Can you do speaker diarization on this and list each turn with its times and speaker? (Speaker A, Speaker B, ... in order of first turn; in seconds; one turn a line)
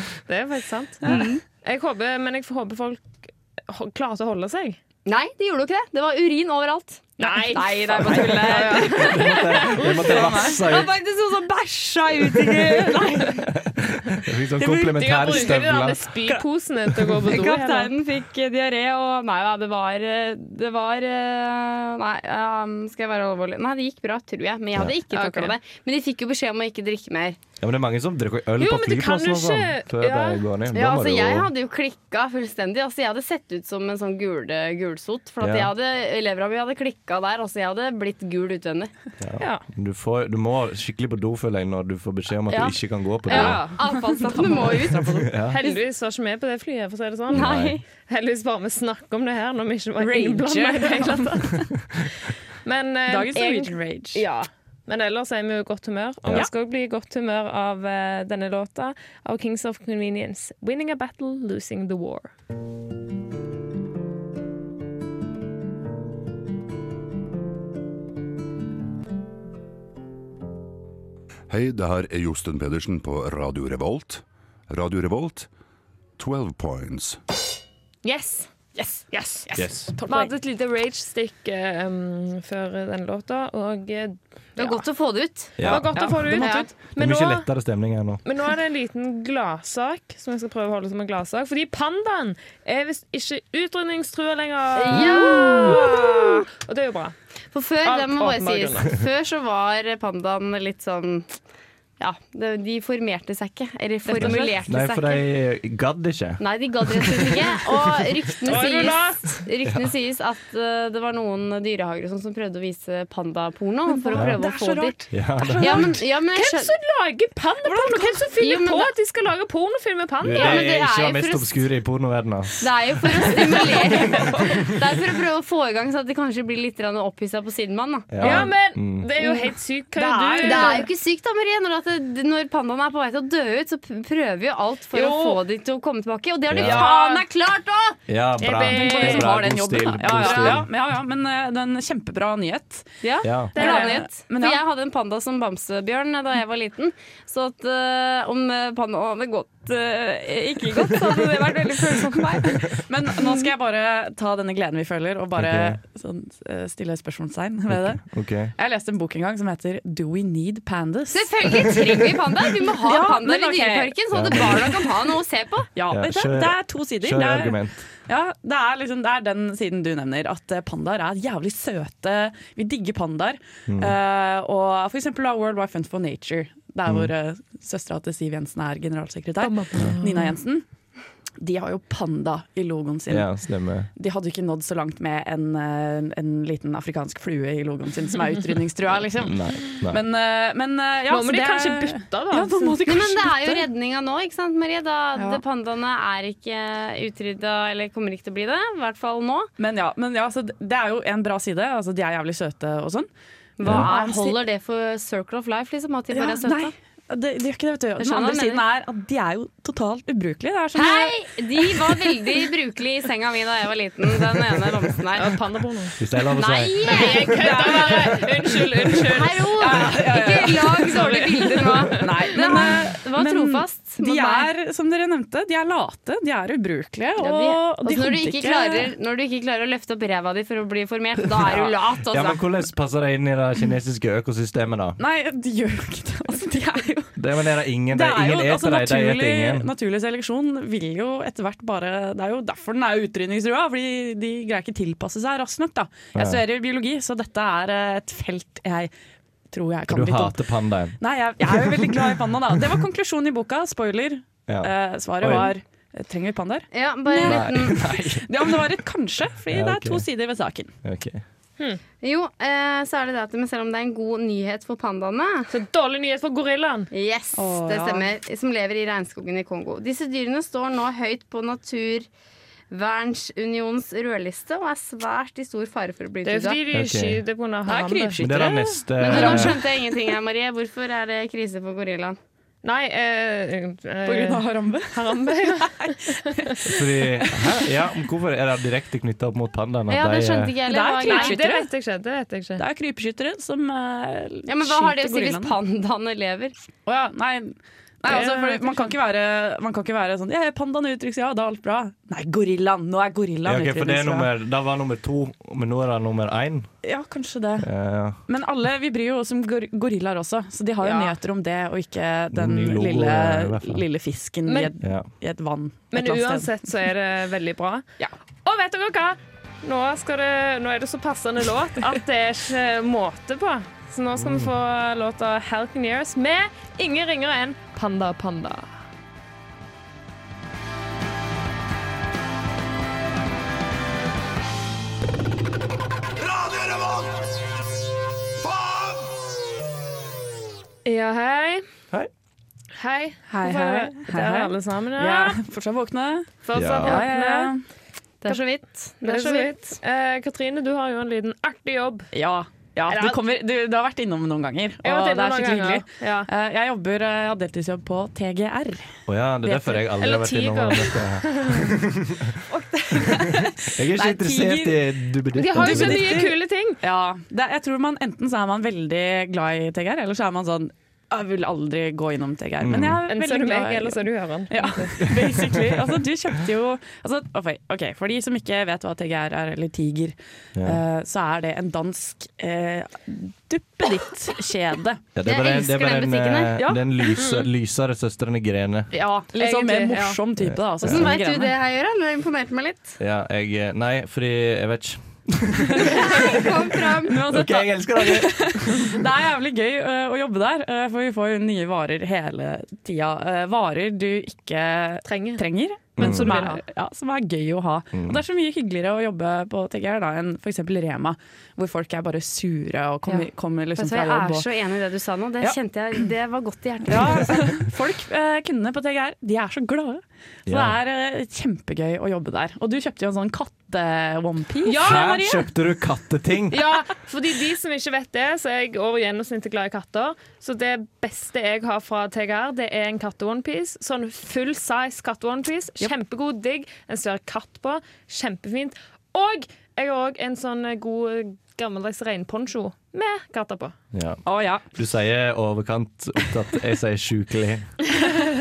Speaker A: 0.3-4.8
Speaker B: 1.0-1.4
Speaker B: 5.1-13.5
Speaker A: 7.2-10.4
Speaker C: 8.0-9.1
Speaker D: 8.9-10.9
Speaker C: 9.8-10.6
Speaker D: 12.3-16.1
Speaker A: 14.6-17.9
Speaker B: 17.2-27.4
Speaker A: 25.1-25.6
Speaker D: 27.6-31.5
Speaker A: 28.6-30.4
Speaker B: 30.7-38.9
Speaker D: 35.4-35.7
Speaker D: 39.2-43.7
Speaker A: 39.4-39.6
Speaker B: 43.3-45.5
Speaker A: 43.3-44.2
Speaker C: 44.1-45.1
Speaker D: 45.2-45.6
Speaker A: 45.5-47.5
Speaker D: 47.3-47.8
Speaker B: 47.3-47.8
Speaker A: 48.1-51.8
Speaker C: 50.0-51.4
Speaker A: 52.6-62.3
Speaker C: 53.1-54.2
Speaker E: 71.5-75.5
Speaker E: 76.2-77.2
Speaker A: 78.0-79.5
Speaker C: 78.8-80.3
Speaker D: 79.5-79.9
Speaker A: 80.1-84.8
Speaker B: 84.6-85.7
Speaker D: 85.6-88.2
Speaker A: 85.6-87.5
Speaker C: 85.9-86.7
Speaker B: 86.4-86.7
Speaker A: 88.2-97.2
Speaker B: 94.8-96.5
Speaker B: 97.5-101.3
Speaker A: 97.8-98.9
Speaker B: 102.0-105.2
Speaker C: 104.1-104.5
Speaker D: 104.2-108.1
Speaker A: 104.2-104.5
Speaker B: 106.4-115.0
Speaker A: 108.4-109.5
Speaker D: 109.7-109.9
Speaker C: 113.9-115.9
Speaker D: 114.1-114.4
Speaker D: 115.1-116.0
Speaker B: 115.6-116.7
Speaker A: 116.3-120.7
Speaker C: 117.7-118.3
Speaker B: 118.4-118.9
Speaker D: 120.2-123.3
Speaker B: 120.3-121.5
Speaker B: 122.6-128.5
Speaker A: 123.5-123.8
Speaker D: 124.2-124.5
Speaker D: 128.1-129.1
Speaker A: 128.2-130.9
Speaker B: 129.2-129.5
Speaker C: 129.9-130.9
Speaker B: 130.4-138.0
Speaker A: 134.9-135.4
Speaker D: 136.5-136.9
Speaker C: 136.6-137.2
Speaker D: 138.1-140.7
Speaker A: 138.4-139.4
Speaker C: 138.7-144.6
Speaker A: 140.2-140.6
Speaker B: 143.0-153.5
Speaker D: 143.2-143.6
Speaker A: 143.5-144.1
Speaker C: 152.7-158.0
Speaker D: 155.4-155.8
Speaker D: 157.7-158.5
Speaker C: 158.6-161.3
Speaker B: 161.1-165.7
Speaker C: 162.8-164.8
Speaker D: 164.1-164.7
Speaker C: 165.8-180.7
Speaker D: 165.9-167.8
Speaker D: 173.7-174.0
Speaker D: 176.9-177.1
Speaker A: 179.4-180.3
Speaker C: 181.4-183.4
Speaker D: 183.1-183.9
Speaker C: 183.9-193.7
Speaker D: 189.1-190.0
Speaker A: 191.1-192.8
Speaker B: 192.8-199.5
Speaker C: 195.2-195.4
Speaker C: 199.6-203.1
Speaker B: 203.6-206.7
Speaker D: 203.6-203.9
Speaker C: 203.6-204.4
Speaker C: 206.1-212.0
Speaker B: 208.0-208.6
Speaker B: 210.8-215.4
Speaker A: 215.2-216.0
Speaker D: 216.0-218.3
Speaker B: 216.3-218.3
Speaker A: 216.8-219.9
Speaker B: 218.9-224.5
Speaker C: 219.6-228.9
Speaker A: 220.7-222.7
Speaker B: 227.2-232.4
Speaker D: 231.4-235.0
Speaker C: 235.0-237.2
Speaker D: 237.2-239.7
Speaker C: 237.9-248.9
Speaker D: 246.2-246.4
Speaker C: 249.5-250.4
Speaker D: 249.9-252.1
Speaker C: 251.0-260.7
Speaker D: 254.5-255.5
Speaker B: 256.7-257.9
Speaker D: 257.2-258.6
Speaker D: 259.5-260.1
Speaker D: 260.8-261.2
Speaker B: 262.0-265.5
Speaker A: 265.5-266.9
Speaker B: 266.9-272.1
Speaker C: 267.4-268.1
Speaker B: 272.7-276.6
Speaker A: 276.2-278.2
Speaker D: 276.7-277.2
Speaker C: 277.7-279.6
Speaker D: 278.2-279.6
Speaker B: 279.0-282.2
Speaker A: 282.6-286.6
Speaker C: 284.1-287.5
Speaker D: 286.6-290.6
Speaker B: 289.9-291.4
Speaker C: 290.7-291.7
Speaker A: 291.0-292.6
Speaker C: 292.6-295.6
Speaker B: 294.5-296.5
Speaker C: 296.9-304.3
Speaker A: 298.1-298.9
Speaker D: 303.4-306.7
Speaker C: 306.8-307.7
Speaker D: 307.6-308.2
Speaker C: 308.3-316.6
Speaker A: 310.8-311.1
Speaker D: 312.3-313.8
Speaker A: 314.5-314.7
Speaker D: 314.8-315.1
Speaker A: 315.9-317.9
Speaker A: 318.4-328.7
Speaker D: 324.2-324.5
Speaker A: 340.9-341.6
Speaker A: 342.8-345.4
Speaker C: 343.3-347.6
Speaker A: 346.4-347.5
Speaker D: 346.5-347.0
Speaker B: 348.2-349.6
Speaker A: 349.0-352.1
Speaker C: 352.1-358.9
Speaker A: 352.9-353.2
Speaker A: 354.8-356.3
Speaker D: 359.1-362.4
Speaker C: 359.4-359.8
Speaker A: 359.9-361.7
Speaker C: 362.5-364.9
Speaker D: 363.4-366.2
Speaker A: 365.4-366.8
Speaker C: 365.5-385.0
Speaker D: 372.6-373.0
Speaker A: 373.1-375.1
Speaker D: 375.1-375.8
Speaker D: 380.6-380.8
Speaker D: 385.1-388.9
Speaker B: 385.2-386.6
Speaker C: 386.6-387.1
Speaker A: 387.2-387.5
Speaker C: 388.9-391.5
Speaker A: 389.4-390.2
Speaker D: 390.4-391.1
Speaker B: 390.8-393.0
Speaker D: 393.0-399.0
Speaker C: 395.7-396.4
Speaker B: 395.8-397.3
Speaker C: 397.1-414.4
Speaker A: 405.1-406.6
Speaker D: 406.0-406.4
Speaker D: 407.9-408.2
Speaker B: 413.1-417.6
Speaker C: 416.9-425.4
Speaker D: 420.5-420.8
Speaker A: 424.6-425.4
Speaker D: 424.8-426.6
Speaker A: 426.5-443.8
Speaker D: 443.9-447.7
Speaker C: 444.3-444.6